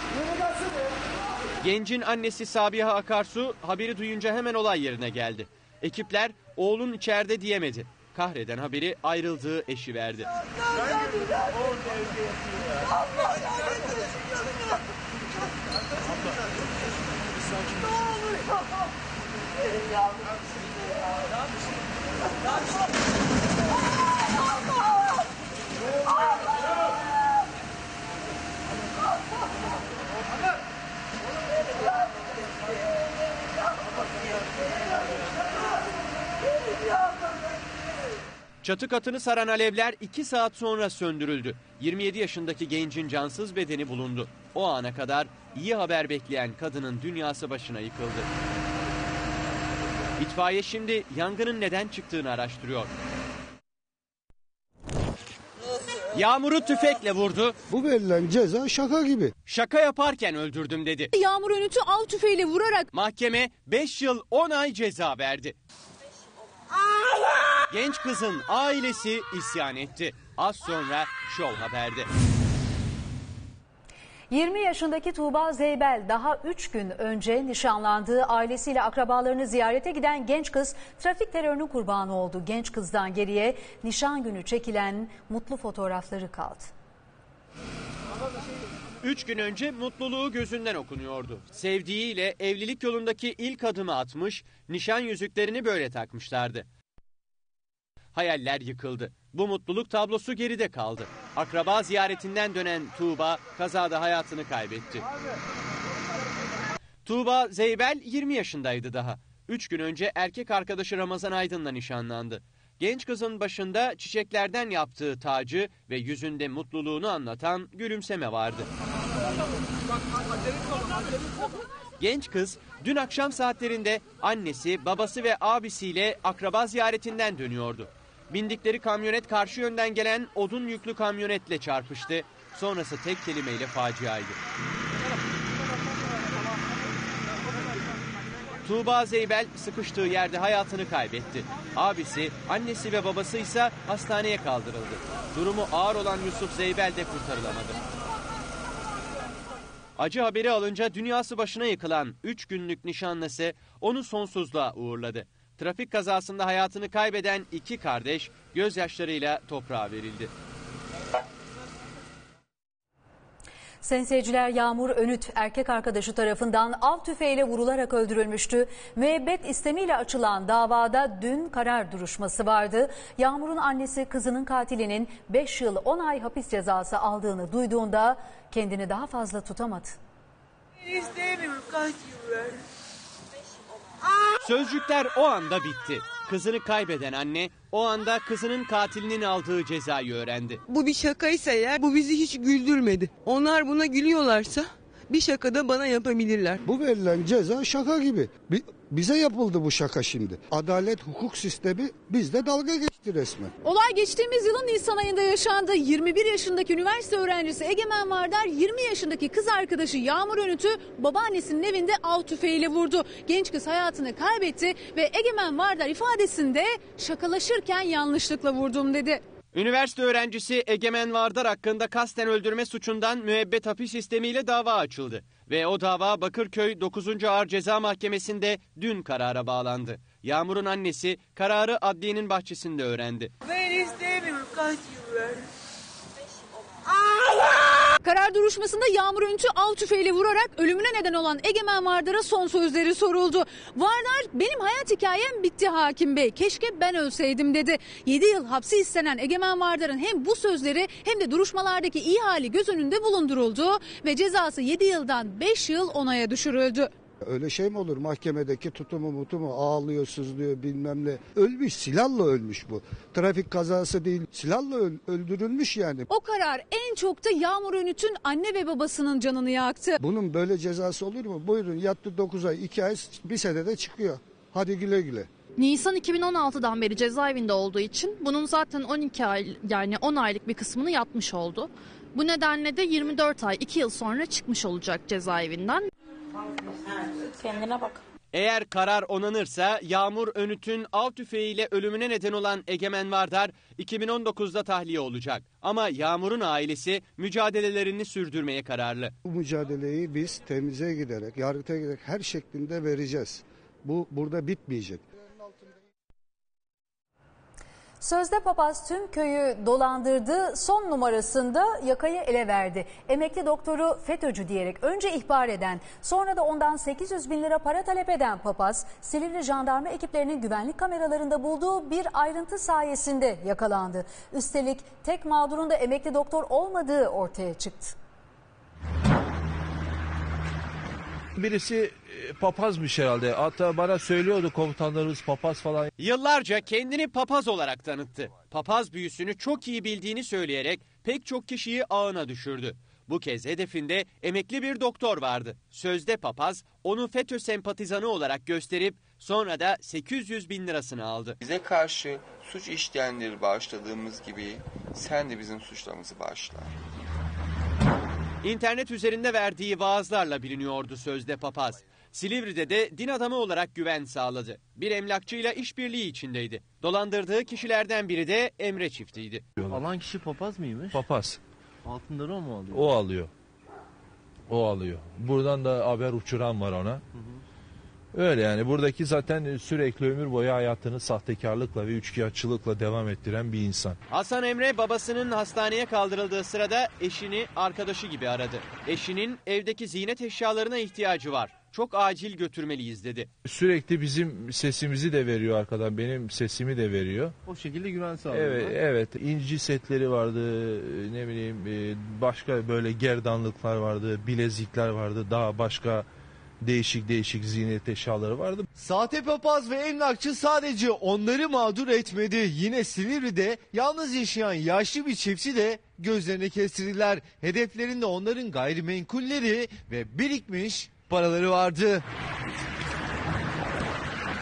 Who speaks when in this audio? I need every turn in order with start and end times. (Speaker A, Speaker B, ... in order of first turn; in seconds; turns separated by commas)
Speaker A: 1.6-10.3, Speaker A: 38.6-48.3, Speaker A: 50.2-52.9, Speaker A: 56.1-57.5, Speaker B: 57.7-59.3, Speaker A: 59.5-61.1, Speaker C: 61.1-62.9, Speaker A: 62.9-65.5, Speaker A: 67.7-72.1, Speaker D: 74.3-86.7, Speaker A: 89.0-96.7, Speaker A: 98.1-105.0, Speaker A: 107.0-118.7, Speaker A: 122.0-134.4, Speaker A: 138.6-147.8, Speaker A: 150.0-160.3, Speaker D: 163.8-180.0, Speaker A: 184.4-190.6, Speaker E: 190.7-196.6, Speaker B: 196.6-203.5, Speaker C: 203.6-219.2, Speaker A: 219.5-233.3, Speaker C: 238.0-256.9, Speaker B: 257.2-266.1, Speaker C: 266.1-270.0, Speaker B: 270.0-275.3, Speaker F: 275.6-285.9, Speaker G: 287.3-288.0, Speaker A: 288.3-299.1, Speaker B: 299.2-305.0, Speaker D: 308.0-327.9, Speaker H: 331.4-335.9, Speaker A: 336.0-351.4, Speaker G: 351.4-356.7, Speaker A: 358.4-369.4, Speaker H: 369.6-369.9, Speaker I: 369.8-370.9, Speaker H: 370.9-371.4, Speaker I: 371.9-372.8, Speaker H: 372.7-373.3, Speaker H: 374.5-377.0, Speaker H: 378.1-384.0, Speaker A: 384.1-393.3, Speaker H: 393.4-397.4, Speaker I: 397.5-398.7, Speaker H: 398.3-406.1, Speaker H: 406.6-408.7, Speaker J: 408.8-422.0